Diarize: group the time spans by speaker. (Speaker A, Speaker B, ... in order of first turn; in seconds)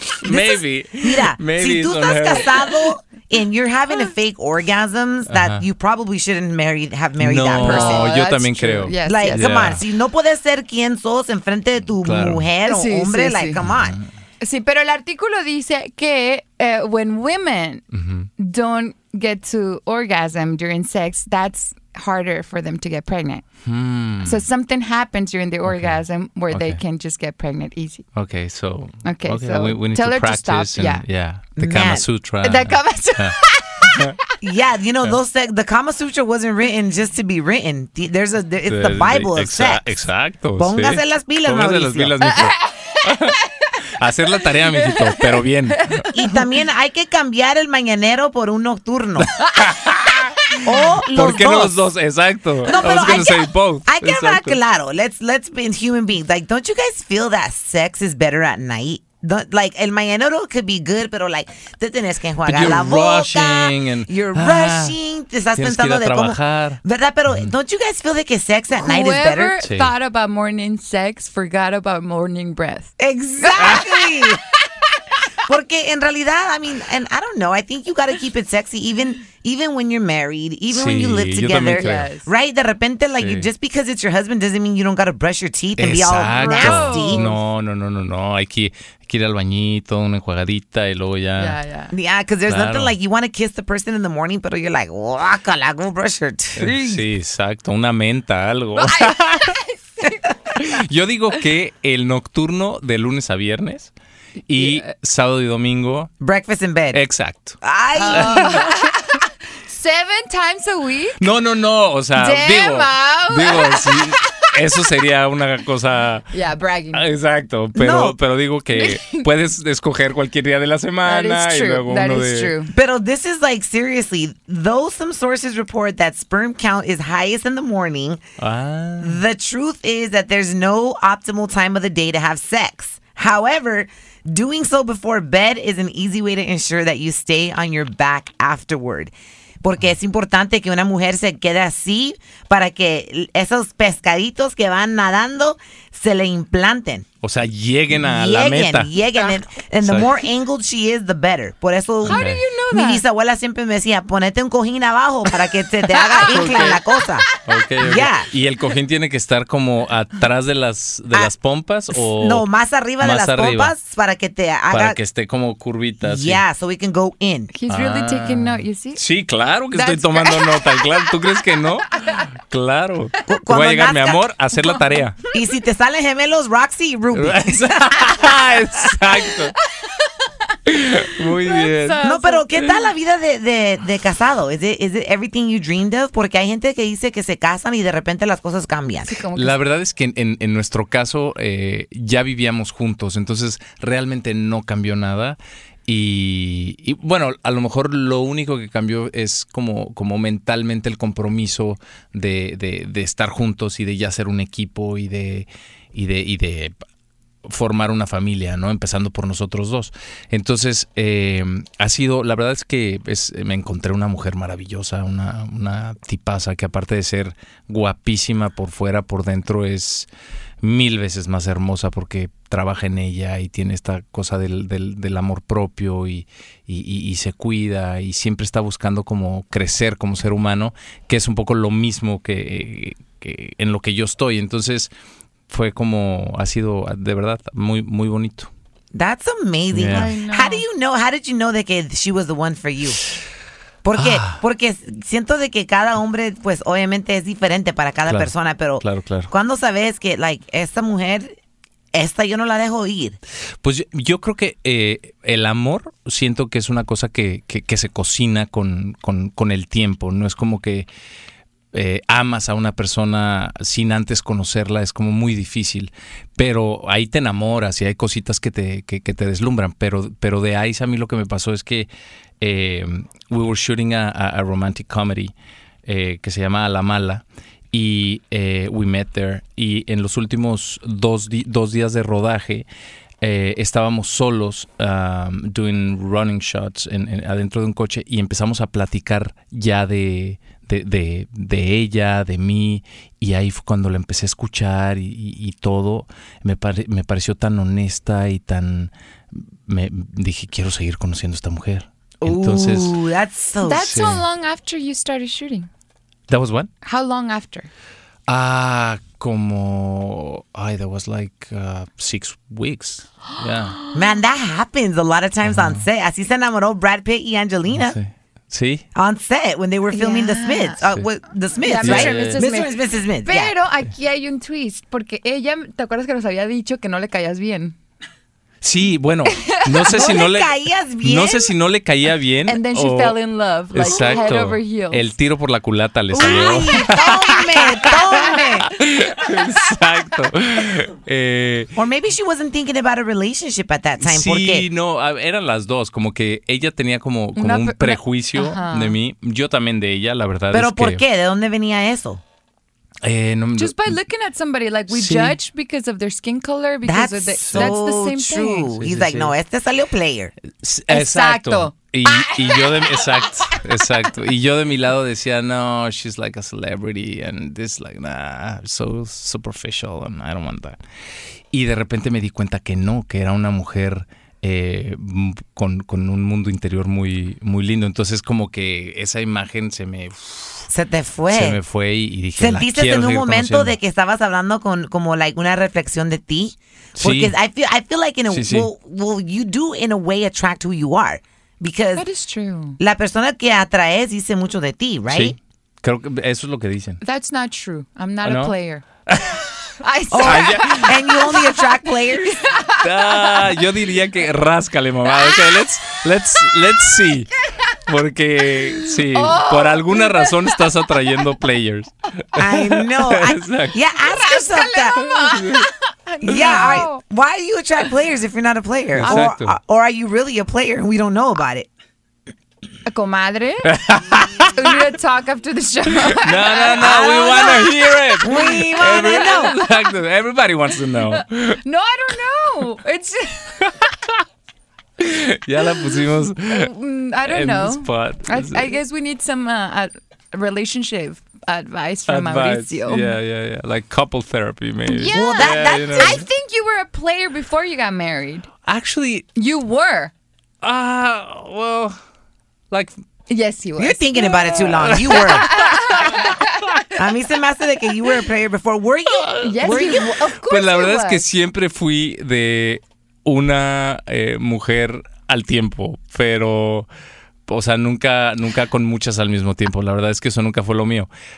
Speaker A: 0.2-2.7, 5.3-5.6, 7.2-9.8, 12.0-12.5, 13.6-14.1, 17.9-18.3, 23.6-24.4, 25.6-26.0, 26.5-26.8, 28.1-34.1, 38.6-43.4, 44.0-46.1, 49.2-50.6, 51.1-54.6, 62.5-65.0, 65.5-67.5, 69.6-69.9, 80.7-82.1, 83.2-83.5, 85.8-91.6, 92.5-92.9, 96.6-99.5, 100.5-103.9, 104.5-106.1, 106.9-107.6, 108.1-108.6, 111.2-116.2, 116.9-122.5, 128.4-129.2, 147.2-148.9, 149.8-150.1, 152.0-152.4, 156.2-156.8, 157.4-162.4, 163.0-163.7, 164.7-166.4, 167.7-175.2, 177.1-179.5, 180.7-182.0, 189.3-206.7, 207.4-220.1, 220.6-234.9, 235.5-238.5, 239.7-240.1, 243.9-244.4, 248.1-249.3, 253.6-260.9, 261.7-271.9, 272.4-275.3, 275.9-282.6, 283.2-303.0, 303.8-304.2, 306.3-306.7, 308.3-313.8, 315.4-315.8, 317.7-318.8, 321.8-322.4, 328.6-333.2, 333.7-341.7, 344.0-351.0, 353.0-354.0, 354.9-355.4, 357.4-357.7, 358.8-359.3, 360.5-370.8, 371.5-380.7, 381.3-383.8, 387.0-387.3, 388.3-388.7, 395.1-397.0, 398.2-398.5, 399.1-399.4, 400.2-400.9, 402.8-413.8, 415.0-415.7, 416.3-416.8, 418.9-419.6, 423.6-424.8, 426.1-431.6, 435.0-436.7, 437.2-438.8, 442.1-446.2, 448.6-449.2, 450.6-452.0, 454.8-456.3, 459.2-466.9, 467.5-471.1
Speaker B: 0.2-8.1, 9.0-14.0, 31.6-32.0, 34.4-39.9, 40.6-42.1, 46.1-49.3, 50.6-51.9, 52.6-69.6, 73.0-74.4, 75.5-87.2, 91.9-97.0, 106.2-107.0, 107.6-108.7, 117.7-118.2, 122.7-128.2, 129.0-147.1, 147.9-157.3, 157.8-158.3, 162.1-165.0, 166.0-167.5, 173.3-174.2, 175.3-178.6, 182.0-189.2, 238.9-243.0, 243.8-251.4, 251.9-253.2, 302.2-303.9, 313.9-318.0, 318.9-323.5, 329.9-331.5, 333.8-334.3, 336.1-338.7, 341.7-344.6, 350.5-352.2, 356.8-360.3, 380.7-381.6, 382.4-392.1, 392.8-395.4, 400.1-402.4, 412.4-415.1, 416.2-421.7, 426.8-427.6, 428.2-429.6, 445.1-446.2, 453.8-455.5, 456.9-460.1
Speaker C: 7.6-9.4, 12.6-13.6, 14.4-17.8, 18.4-23.4, 24.2-28.0, 29.0-31.0, 32.4-34.1, 42.2-43.3, 44.7-45.4, 45.9-46.3, 68.8-73.9, 81.7-82.3, 86.4-87.4, 91.4-91.9, 98.8-100.3, 104.5-104.9, 107.9-108.9, 109.7-111.2, 112.2-114.5, 116.3-117.0, 118.7-119.2, 121.0-122.7, 152.0-153.0, 155.9-156.7, 167.5-169.0, 169.7-171.1, 181.2-182.4, 189.1-189.6, 239.9-240.6, 303.6-305.7, 306.8-307.7, 319.9-320.8, 321.6-322.7, 323.2-327.8, 332.5-335.1, 336.2-336.8, 347.4-348.9, 353.6-358.7, 360.9-363.6, 391.9-392.8, 397.0-398.8, 399.8-401.6, 402.4-403.4, 408.8-410.9, 414.1-417.0, 422.8-423.8, 424.4-429.7, 431.1-433.7, 436.4-443.1, 444.9-448.5, 449.4-450.1, 453.3-456.8, 459.4-461.2